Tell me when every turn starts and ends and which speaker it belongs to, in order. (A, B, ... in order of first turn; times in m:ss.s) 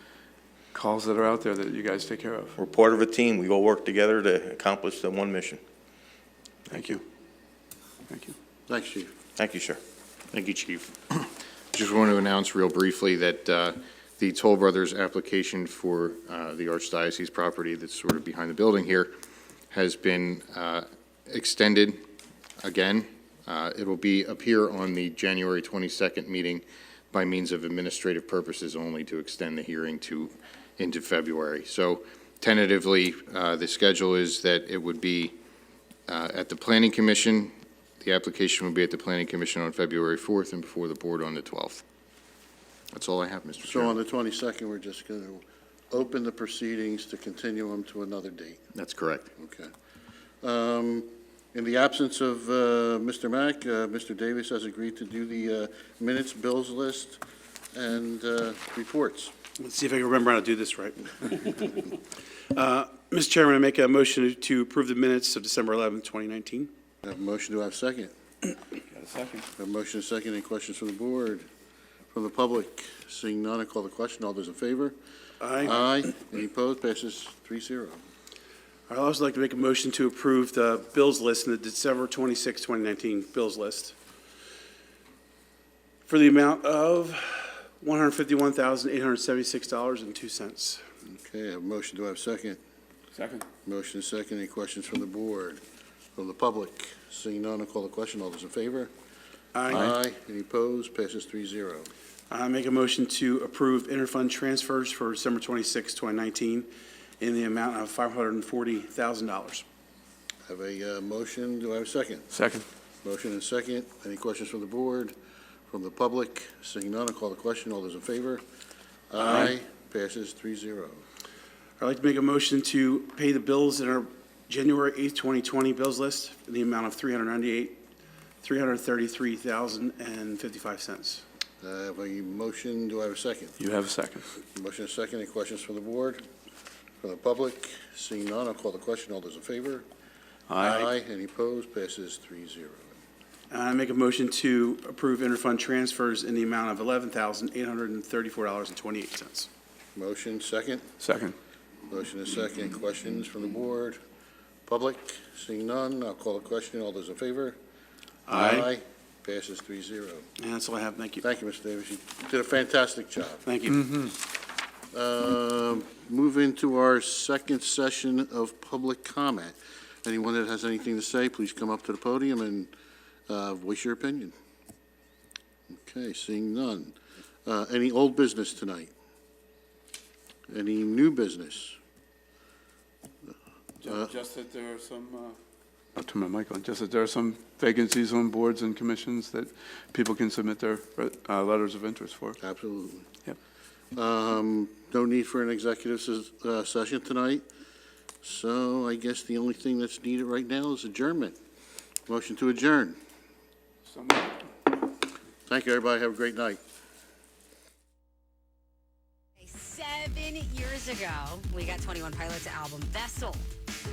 0:00.7-0:02.6 A
0:02.6-0:05.6 B
0:06.7-0:07.0 A
0:08.1-0:08.3 A
0:08.7-0:09.1 C
0:09.4-0:09.8 B
0:10.3-0:19.1 D
0:19.7-0:22.0 D
0:22.6-0:35.3 D
0:36.1-0:41.8 D
0:42.9-0:44.0 D
0:43.6-0:48.6 C
0:48.7-0:49.3 D
0:49.4-0:49.7 C
0:50.4-0:57.2 C
0:57.7-0:59.3 C
0:59.6-1:02.0 E
1:02.5-1:06.7 E
1:07.0-1:08.1 C
1:08.9-1:09.4 A
1:09.6-1:11.5 C
1:12.1-1:15.0 C
1:15.4-1:15.9 E
1:15.6-1:18.0 C
1:18.9-1:24.0 E
1:26.1-1:30.8 E
1:31.0-1:32.6 C
1:33.2-1:33.4 A
1:33.7-1:35.6 C
1:36.2-1:38.9 C
1:39.6-1:39.9 E
1:39.7-1:41.9 C
1:42.3-1:49.6 E
1:50.5-1:52.3 C
1:52.3-1:52.6 A
1:53.0-1:55.1 C
1:55.7-1:58.4 C
1:59.1-2:01.0 C
2:01.8-2:07.8 E
2:08.4-2:11.2 E
2:11.6-2:13.6 C
2:13.6-2:14.3 A
2:14.6-2:16.2 C
2:17.0-2:19.9 C
2:20.5-2:20.9 A
2:20.6-2:22.9 C
2:23.5-2:29.5 E
2:30.0-2:30.9 C
2:31.0-2:31.4 A
2:31.9-2:34.0 C
2:34.7-2:37.6 C
2:38.3-2:38.7 E
2:38.3-2:40.3 C
2:40.4-2:41.2 E
2:41.2-2:43.5 C
2:43.4-2:43.9 E
2:44.9-2:52.7 C
2:53.3-2:54.3 C
2:55.7-2:58.9 C
3:00.5-3:01.8 C
3:03.8-3:05.4 A
3:06.0-3:12.4 A
3:12.4-3:13.1 C
3:13.9-3:17.4 C
3:18.2-3:21.4 C
3:22.1-3:23.0 C
3:23.9-3:24.4 A
3:25.5-3:26.6 C
3:29.4-3:33.4 F